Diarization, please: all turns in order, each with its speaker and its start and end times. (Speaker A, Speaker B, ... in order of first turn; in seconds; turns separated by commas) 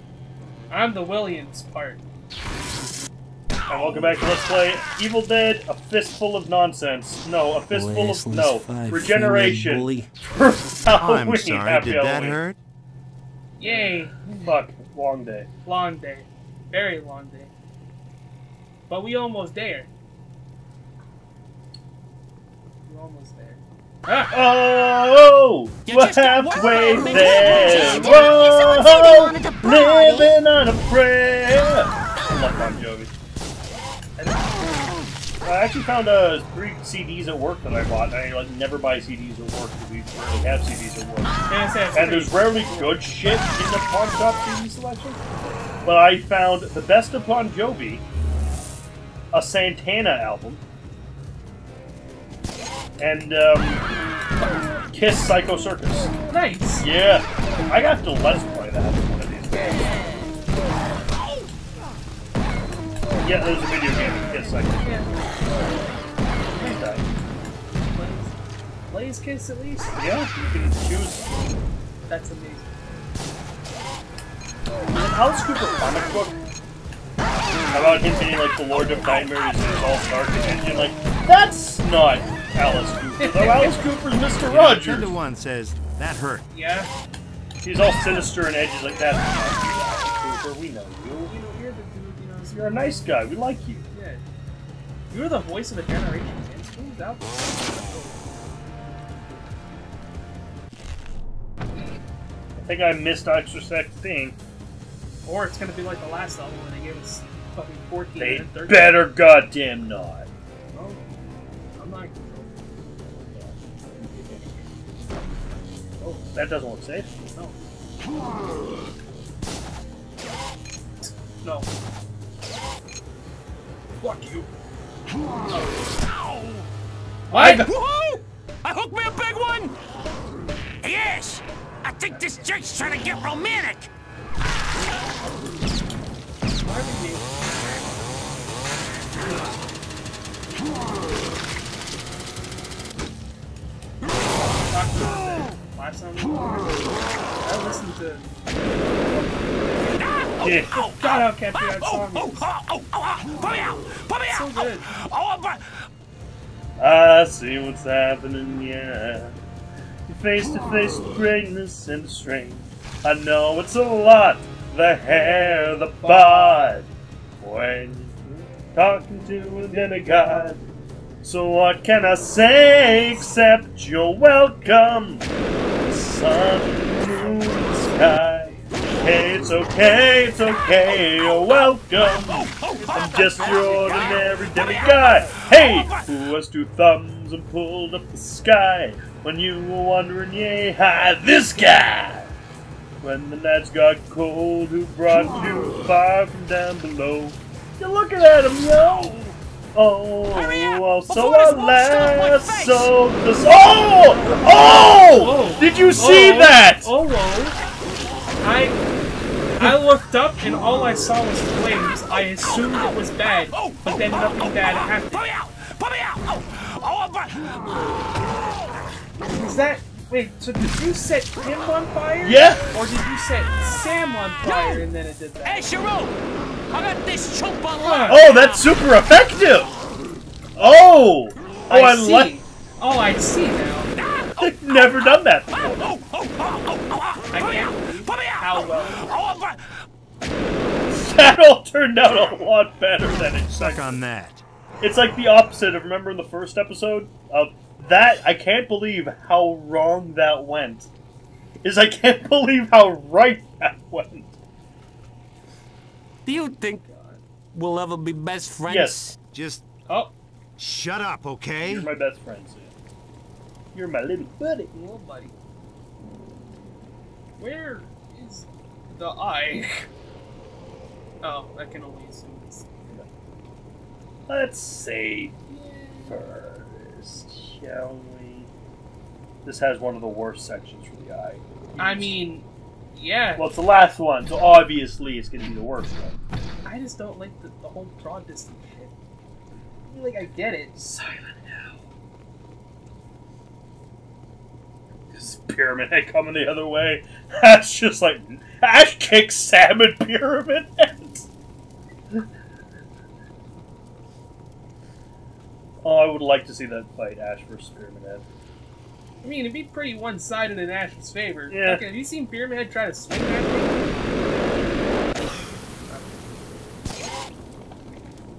Speaker A: 0.7-2.0, Speaker B: 3.7-12.4, Speaker C: 7.7-10.1, Speaker D: 10.9-12.6, Speaker A: 13.6-14.5, Speaker B: 13.6-15.5, Speaker A: 15.7-17.5, Speaker A: 18.9-19.9, Speaker A: 22.9-24.4, Speaker B: 24.3-33.1, Speaker C: 25.9-30.3, Speaker A: 27.0-28.3, Speaker A: 34.2-35.0, Speaker B: 35.4-41.4, Speaker A: 41.5-43.4, Speaker B: 41.9-45.2, Speaker B: 45.8-48.0, Speaker B: 49.3-50.6, Speaker B: 53.0-53.8, Speaker B: 54.9-56.1, Speaker A: 56.3-56.9, Speaker B: 56.8-60.0, Speaker B: 63.2-65.0, Speaker A: 64.8-65.1, Speaker B: 66.5-67.0, Speaker A: 66.5-67.1, Speaker A: 67.8-68.3, Speaker A: 68.9-70.0, Speaker B: 70.0-71.3, Speaker A: 72.1-72.8, Speaker B: 74.9-76.4, Speaker B: 77.7-85.2, Speaker A: 83.2-83.9, Speaker D: 84.5-86.5, Speaker A: 86.5-86.9, Speaker B: 87.6-91.3, Speaker A: 91.3-93.2, Speaker B: 92.5-93.9, Speaker A: 93.9-94.2, Speaker A: 95.1-98.1, Speaker B: 102.6-104.4, Speaker A: 105.2-109.1, Speaker B: 108.2-110.3, Speaker A: 110.7-111.0, Speaker A: 111.8-114.6, Speaker A: 116.0-116.3, Speaker B: 116.3-117.1, Speaker A: 121.4-121.7, Speaker A: 124.0-124.5, Speaker A: 127.3-127.7, Speaker B: 127.3-127.7, Speaker C: 127.5-129.8, Speaker C: 130.8-133.9, Speaker A: 132.1-132.5, Speaker A: 136.6-138.1, Speaker A: 139.2-139.5, Speaker A: 144.4-148.3, Speaker A: 148.8-150.0, Speaker C: 150.0-155.8, Speaker B: 150.4-150.9, Speaker A: 151.0-152.5, Speaker A: 154.3-154.9, Speaker B: 156.8-159.4, Speaker B: 160.1-166.9, Speaker A: 165.0-166.9, Speaker B: 167.4-170.6, Speaker A: 169.7-170.6, Speaker B: 171.2-175.2, Speaker A: 173.1-173.4, Speaker B: 175.8-192.3, Speaker A: 176.7-179.0, Speaker C: 181.1-186.1, Speaker A: 182.7-185.4, Speaker B: 193.0-206.9, Speaker C: 200.3-202.9, Speaker A: 205.1-207.6, Speaker A: 208.4-208.8, Speaker A: 209.6-215.3, Speaker C: 212.1-217.8, Speaker A: 219.3-225.8, Speaker B: 222.2-222.8, Speaker C: 224.4-224.9, Speaker C: 225.4-226.2, Speaker C: 226.7-228.8, Speaker A: 227.7-228.2, Speaker B: 228.1-229.7, Speaker B: 230.6-232.4, Speaker A: 231.7-233.9, Speaker C: 234.2-239.7, Speaker B: 234.4-235.9, Speaker A: 237.3-239.1, Speaker B: 240.9-244.0, Speaker D: 243.6-244.4, Speaker B: 244.8-250.9, Speaker B: 251.6-254.3, Speaker C: 256.3-256.9, Speaker A: 256.8-257.2, Speaker C: 257.5-259.2, Speaker B: 258.7-259.0, Speaker D: 259.3-259.6, Speaker A: 259.9-260.1, Speaker D: 260.6-261.9, Speaker B: 261.6-262.7, Speaker B: 263.7-264.7, Speaker A: 264.7-265.3, Speaker A: 267.4-269.9, Speaker A: 271.2-272.7, Speaker B: 274.3-275.4, Speaker A: 275.5-276.2, Speaker B: 276.1-278.5, Speaker B: 279.4-282.2, Speaker A: 281.8-283.5, Speaker B: 283.4-286.2, Speaker A: 286.6-288.9, Speaker A: 289.9-290.8, Speaker B: 290.8-291.8, Speaker B: 295.1-301.3, Speaker B: 305.8-308.2, Speaker A: 309.2-313.8, Speaker B: 311.5-311.8, Speaker A: 315.9-316.2